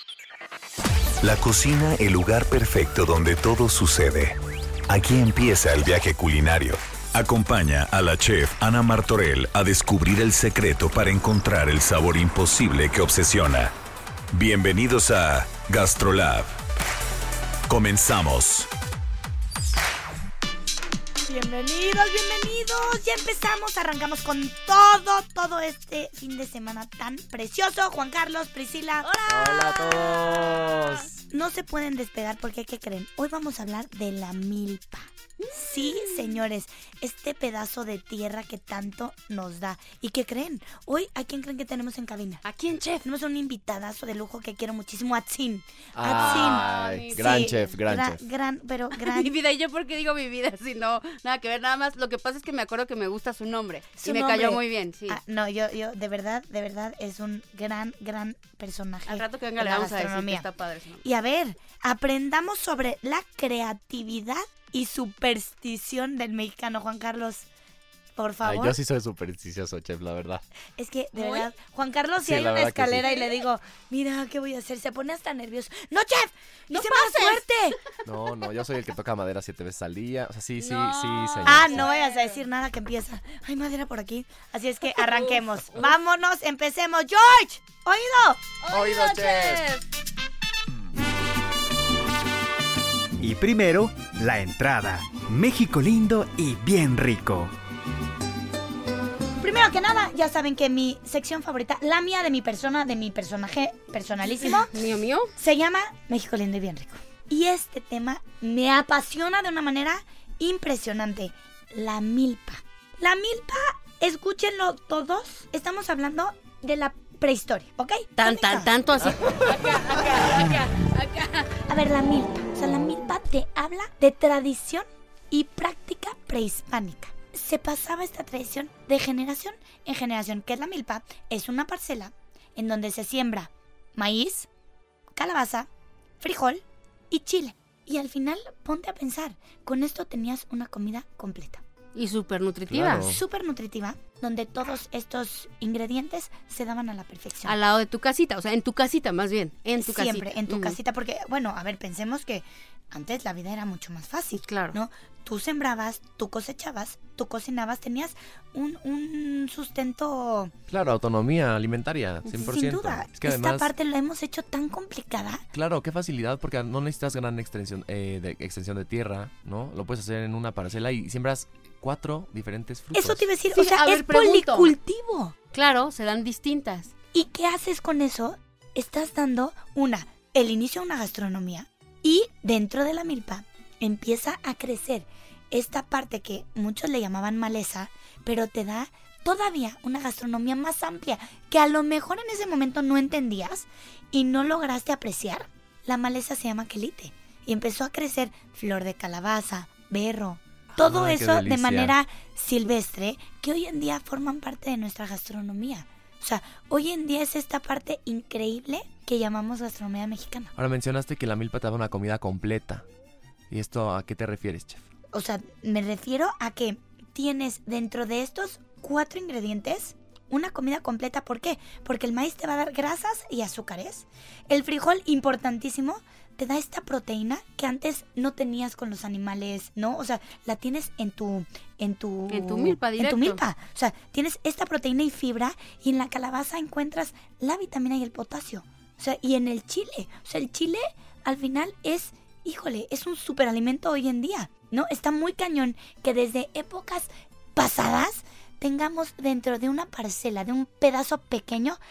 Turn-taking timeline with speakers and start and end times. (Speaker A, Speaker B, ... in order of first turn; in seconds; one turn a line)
Speaker A: 1.2-4.4
Speaker A: 4.9-13.7
Speaker A: 14.3-16.5
Speaker A: 17.7-18.7
Speaker B: 21.2-29.7
Speaker C: 29.1-31.1
Speaker D: 29.3-31.1
Speaker B: 31.3-42.4
Speaker C: 35.8-36.2
Speaker C: 42.4-43.0
Speaker B: 43.0-49.3
Speaker D: 46.0-48.2
Speaker C: 46.0-47.8
Speaker C: 49.0-55.2
Speaker B: 54.0-60.5
Speaker C: 59.1-61.0
Speaker B: 61.0-67.5
Speaker B: 68.2-68.8
Speaker D: 68.4-70.4
Speaker B: 70.8-77.8
Speaker C: 71.2-71.5
Speaker D: 72.2-73.1
Speaker C: 76.7-77.4
Speaker D: 78.0-81.9
Speaker C: 80.6-82.4
Speaker B: 81.4-88.4
Speaker C: 84.9-85.9
Speaker C: 88.6-89.8
Speaker D: 88.7-89.6
Speaker E: 93.2-97.5
Speaker B: 99.4-104.7
Speaker C: 104.4-105.3
Speaker B: 105.3-118.7
Speaker C: 118.2-121.5
Speaker B: 121.7-134.5
Speaker B: 135.2-135.7
Speaker B: 136.2-141.6
Speaker C: 141.9-143.1
Speaker D: 142.7-143.2
Speaker B: 143.0-147.6
Speaker C: 147.4-150.8
Speaker B: 149.8-160.5
Speaker C: 154.5-154.8
Speaker D: 160.7-163.7
Speaker B: 162.4-165.4
Speaker D: 165.5-173.3
Speaker B: 172.9-175.3
Speaker C: 173.5-174.7
Speaker C: 175.5-176.9
Speaker B: 177.1-210.5
Speaker D: 200.7-202.0
Speaker D: 210.6-212.8
Speaker D: 213.5-214.9
Speaker B: 215.1-251.8
Speaker C: 232.3-233.4